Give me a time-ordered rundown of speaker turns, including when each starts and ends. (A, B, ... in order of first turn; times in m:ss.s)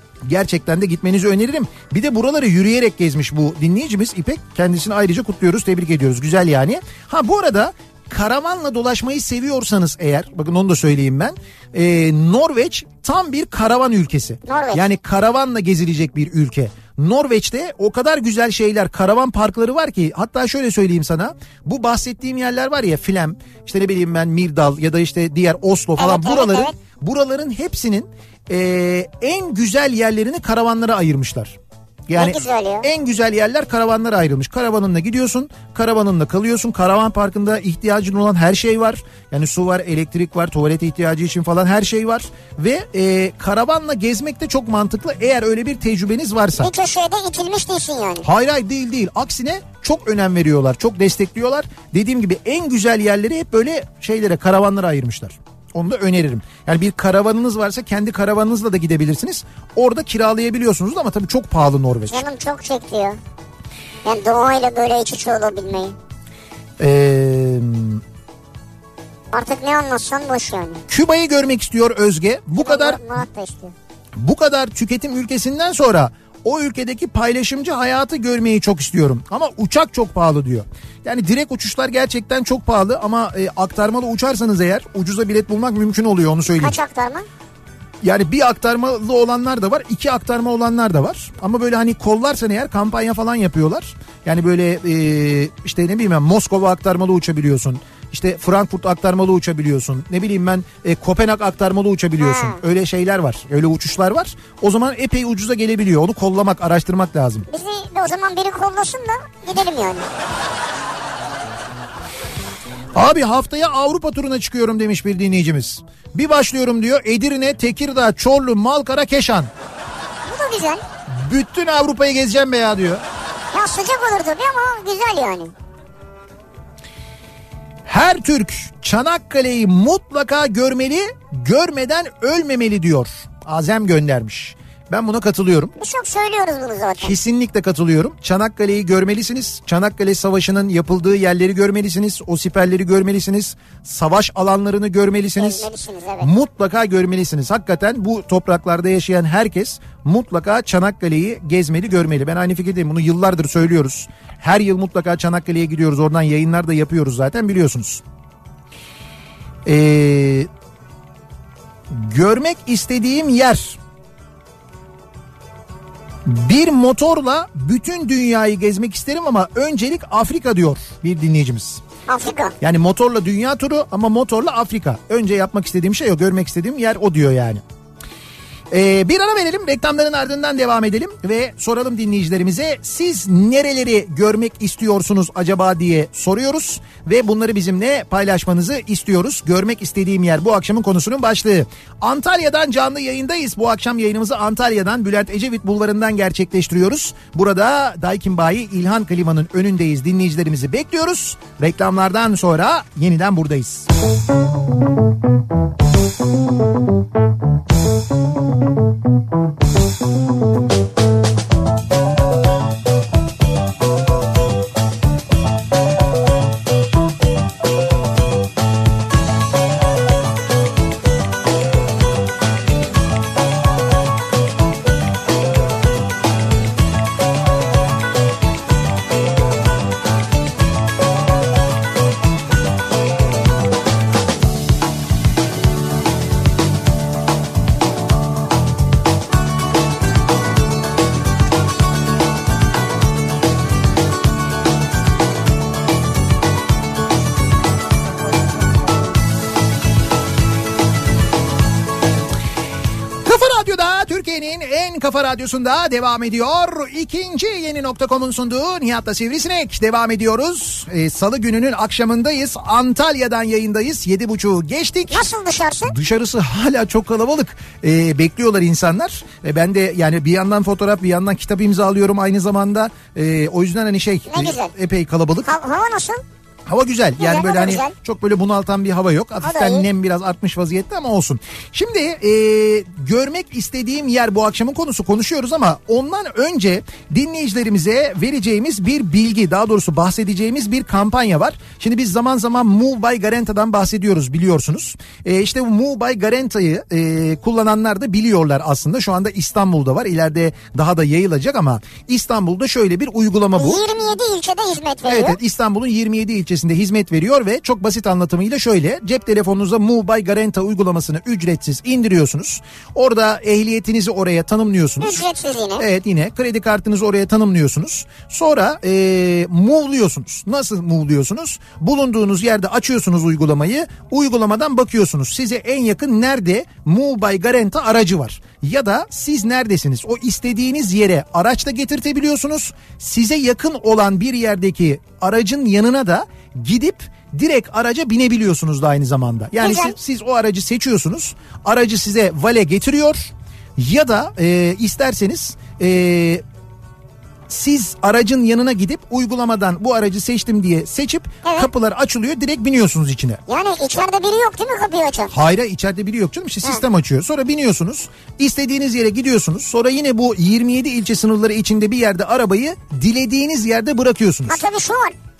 0:00.2-0:31.6 A
0:14.4-0:14.8 B
0:26.0-0:26.7 B
0:32.1-0:46.7 A
0:32.2-0:32.9 B
0:46.6-0:48.2 B
0:48.2-1:02.2 A
1:02.1-1:03.2 B
1:04.0-1:05.9 B
1:06.8-1:08.0 A
1:09.3-1:10.8 B
1:10.9-1:13.0 A
1:12.6-1:13.7 B
1:14.2-1:26.8 A
1:26.6-1:27.2 B
1:28.0-1:47.5 A
1:42.2-1:42.6 B
1:47.5-1:50.0 B
1:52.9-1:59.5 A
2:00.2-2:00.8 B
2:01.1-2:03.0 A
2:03.5-2:05.5 B
2:07.8-2:15.7 A
2:15.8-2:17.2 B
2:17.0-2:25.7 A
2:25.4-2:26.3 B
2:26.2-2:38.0 A
2:39.6-2:40.5 A
2:41.9-2:43.8 A
2:46.2-2:51.8 A
2:52.1-2:52.5 B
2:52.6-2:57.6 A
2:58.7-3:23.9 A
4:13.2-4:25.3 A
4:25.1-4:25.9 B
4:25.9-4:35.5 A
4:34.3-4:34.7 B
4:35.4-4:36.2 B
4:36.7-5:03.9 A
4:37.2-4:37.9 B
4:39.4-4:39.8 B
5:03.6-5:05.4 B
5:05.1-5:15.3 A
5:15.0-5:15.8 B
5:15.8-5:46.4 A
5:39.6-5:40.0 B
5:47.5-5:53.4 A
5:51.4-5:51.7 B
5:53.5-5:55.3 B
5:55.3-6:04.6 A
6:04.5-6:05.2 B